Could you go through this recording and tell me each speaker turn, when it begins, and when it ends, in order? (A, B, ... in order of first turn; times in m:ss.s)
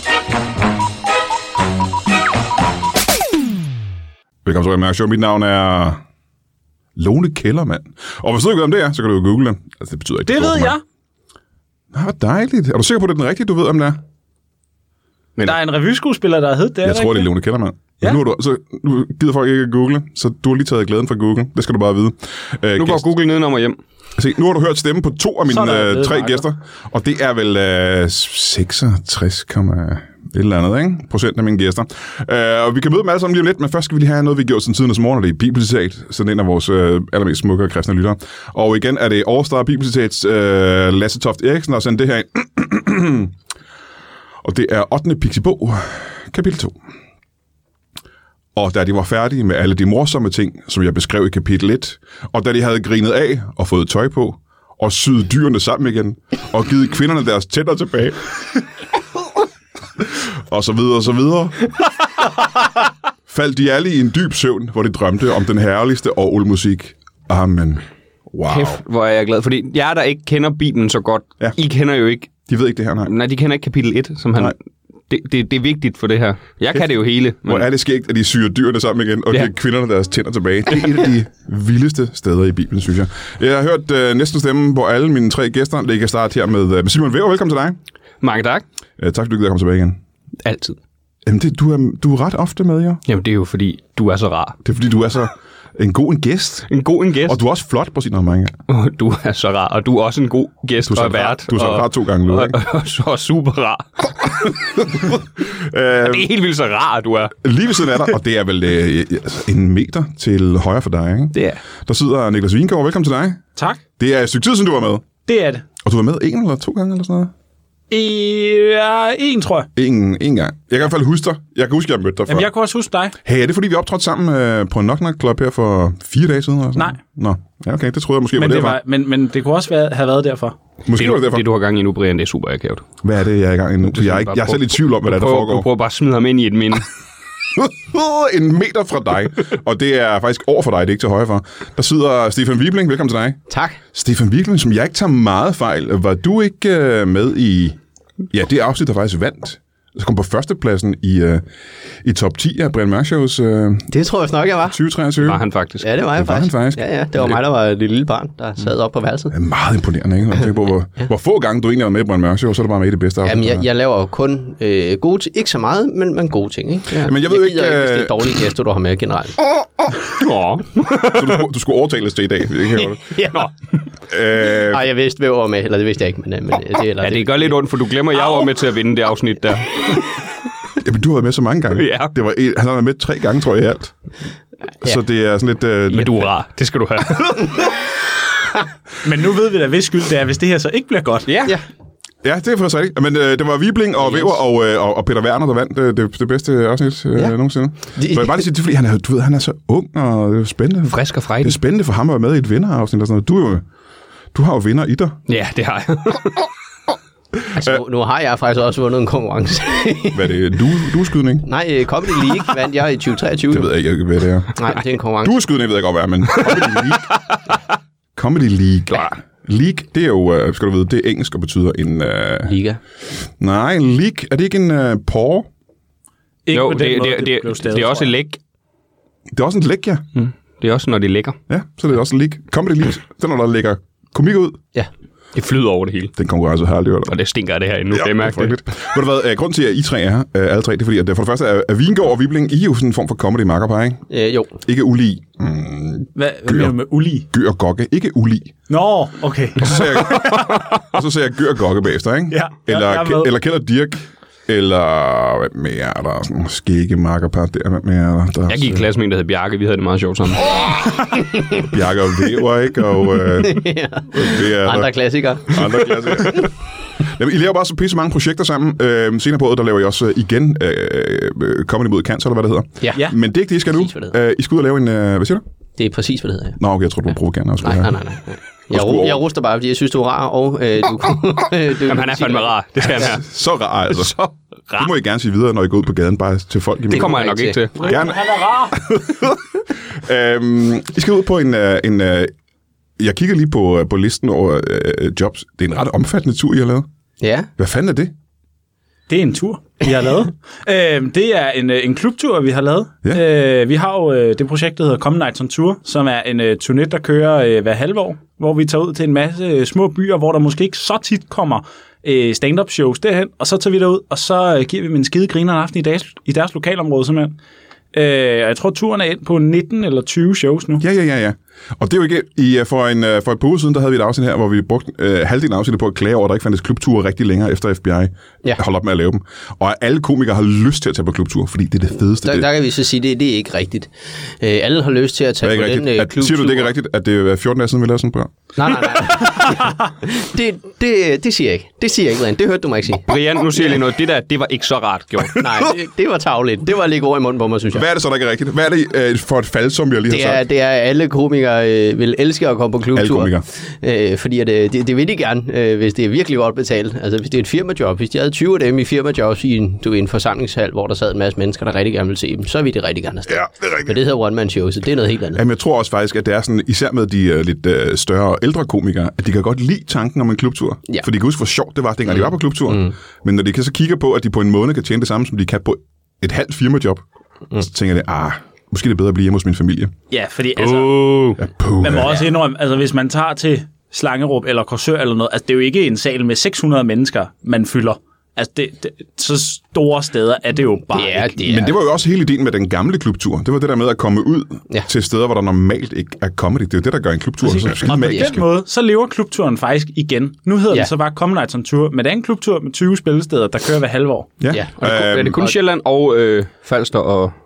0:04.4-0:06.0 A
0:07.0-0:10.8 A
0:10.2-0:10.8 B
0:11.9-0:14.0 A
0:15.5-0:17.3 B
0:16.8-0:23.1 A
0:22.8-0:23.8 C
0:24.2-0:43.3 A
0:25.5-0:26.4 B
0:44.4-0:46.8 A
0:48.6-0:58.2 A
1:00.0-1:01.6 A
1:03.3-1:08.8 A
1:08.5-1:12.4 C
1:12.5-1:13.1 A
1:13.0-1:14.6 C
1:15.1-1:17.7 C
1:17.4-1:27.8 A
1:28.2-1:28.6 C
1:29.0-1:30.0 A
1:31.3-1:33.0 A
1:33.1-1:34.6 C
1:34.6-1:36.7 A
1:36.7-1:37.4 C
1:37.3-1:38.6 A
1:38.7-1:44.6 C
1:40.9-1:42.6 A
1:44.3-1:46.3 A
1:46.0-1:47.4 C
1:47.4-1:53.4 A
1:51.3-1:51.6 C
1:54.0-1:55.0 A
1:55.3-1:55.6 B
1:55.8-1:57.3 A
1:57.9-1:59.7 B
1:59.8-2:02.5 A
2:02.3-2:03.2 B
2:03.2-2:08.8 A
2:08.4-2:10.6 B
2:10.8-2:11.5 A
2:10.9-2:12.9 C
2:13.0-2:15.7 A
2:13.9-2:16.9 C
2:17.6-2:23.4 A
2:23.5-2:23.8 D
2:23.9-2:27.8 A
2:28.3-2:31.4 A
2:32.0-2:33.9 A
2:33.9-2:34.8 D
2:34.7-2:35.4 A
2:35.2-2:35.9 C
2:35.8-2:39.3 D
2:36.2-2:37.4 A
2:39.3-2:43.6 A
2:43.2-2:49.4 D
2:47.0-2:48.4 A
2:50.2-2:51.4 C
2:51.1-2:53.2 A
2:53.1-2:53.5 D
2:54.1-2:54.8 A
2:54.6-2:57.5 D
2:57.0-2:59.8 C
3:00.8-3:03.9 A
3:01.8-3:02.1 C
3:04.8-3:06.3 A
3:05.9-3:07.7 C
3:09.0-3:11.3 B
3:11.3-3:11.6 C
3:12.2-3:23.6 A
3:18.0-3:18.4 D
3:20.9-3:21.6 C
3:24.3-3:25.2 A
3:25.3-3:26.5 C
3:27.5-3:30.3 D
3:30.1-3:31.5 A
3:31.4-3:33.7 D
3:33.5-3:37.1 A
3:34.6-3:35.4 D
3:36.4-3:37.2 C
3:38.2-3:42.5 A
3:42.4-3:42.8 D
3:43.4-3:45.5 A
3:46.5-3:48.1 B
3:46.5-3:48.4 C
3:49.3-3:50.0 A
3:50.2-3:51.4 C
3:51.5-3:54.6 A
3:55.4-3:56.1 C
3:56.2-3:57.1 A
3:57.1-3:58.6 C
3:57.9-4:04.0 A
4:04.1-4:04.5 D
4:04.6-4:06.8 A
4:06.2-4:07.3 B
4:07.3-4:08.6 A
4:08.7-4:10.6 B
4:09.6-4:18.8 A
4:10.3-4:10.8 C
4:12.3-4:13.3 B
4:18.5-4:20.6 C
4:21.3-4:21.6 D
4:21.6-4:35.4 A
4:23.4-4:26.5 D
4:33.7-4:34.1 D
4:35.8-4:36.6 D
4:36.6-4:38.0 A
4:37.6-4:43.1 D
4:38.7-4:39.2 A
4:41.9-4:43.3 C
4:42.8-4:44.2 A
4:43.9-4:44.9 C
4:44.7-4:47.2 A
4:46.9-4:47.6 D
4:46.9-4:48.0 C
4:47.8-4:48.8 B
4:47.8-4:52.3 A
4:53.0-4:56.9 A
4:57.2-4:57.5 D
4:57.6-4:58.1 A
4:59.1-5:17.4 B
5:17.9-5:20.8 B
5:20.8-5:32.5 A
5:32.2-5:36.7 D
5:35.4-5:39.0 A
5:38.6-5:43.1 D
5:43.1-5:45.6 C
5:45.4-5:47.8 D
5:47.7-5:50.4 A
5:50.1-6:05.4 D
5:52.9-5:53.4 A
6:03.3-6:04.0 A
6:05.4-6:17.0 A
6:12.7-6:13.0 D
6:17.6-6:19.9 A
6:20.1-6:21.2 B
6:20.6-6:21.4 C
6:21.4-6:22.2 A
6:21.8-6:31.4 B
6:30.9-6:31.8 D
6:31.4-6:38.4 A
6:37.4-6:44.3 B
6:44.4-6:45.5 A
6:44.8-6:47.3 C